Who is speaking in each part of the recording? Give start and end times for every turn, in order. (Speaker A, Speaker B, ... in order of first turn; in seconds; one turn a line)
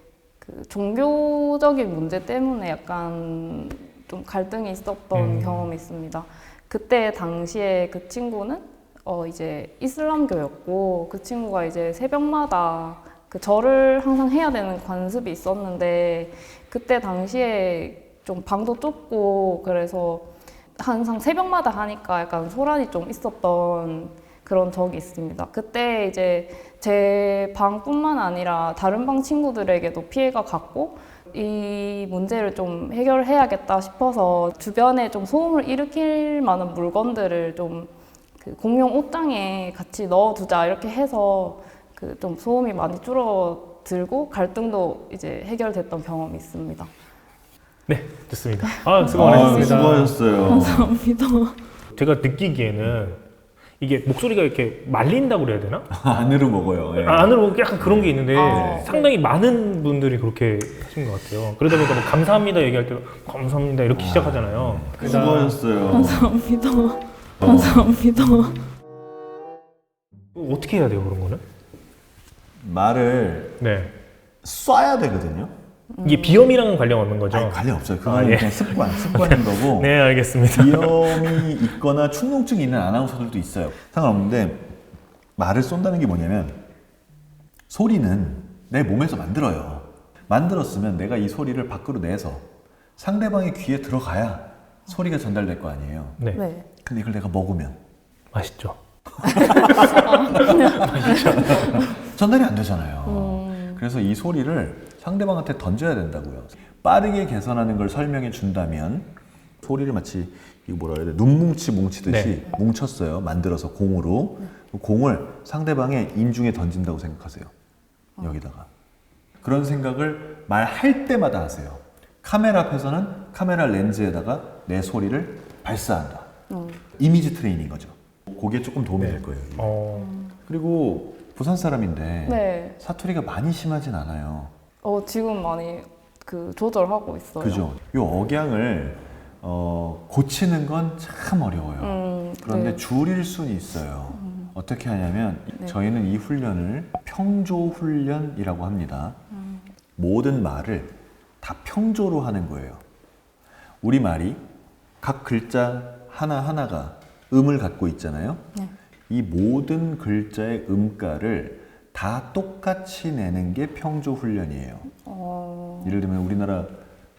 Speaker A: 0.4-46.9
Speaker B: 5.1-5.7
Speaker B: 47.9-50.2
Speaker A: 48.7-51.6
Speaker C: 49.1-51.0
Speaker B: 52.0-53.2
Speaker B: 53.8-55.9
Speaker C: 55.9-58.9
Speaker B: 57.0-65.5
Speaker A: 58.3-59.2
Speaker C: 63.9-66.3
Speaker A: 65.0-68.6
Speaker C: 67.4-68.0
Speaker B: 70.4-71.4
Speaker C: 72.6-73.6
Speaker B: 73.6-73.9
Speaker C: 74.4-75.5
Speaker A: 75.9-76.6
Speaker B: 76.0-81.5
Speaker C: 77.3-84.8
Speaker C: 85.4-86.6
Speaker C: 87.7-96.2
Speaker A: 96.3-96.7
Speaker C: 96.8-97.8
Speaker B: 98.3-98.8
Speaker C: 99.2-117.5
Speaker A: 99.2-102.0
Speaker B: 100.8-101.7
Speaker A: 103.0-103.8
Speaker B: 112.1-112.3
Speaker C: 118.2-118.7
Speaker C: 119.4-126.3
Speaker A: 126.5-126.8
Speaker C: 126.9-129.8
Speaker B: 129.0-130.1
Speaker A: 129.9-130.4
Speaker C: 130.4-134.5
Speaker A: 132.3-132.8
Speaker A: 134.8-137.7
Speaker C: 137.4-149.2
Speaker A: 141.8-142.8
Speaker A: 144.1-144.5
Speaker A: 149.3-149.7
Speaker C: 150.0-152.8
Speaker C: 153.8-154.4
Speaker C: 155.0-158.4
Speaker C: 159.1-164.9
Speaker A: 165.0-166.0
Speaker C: 165.8-166.8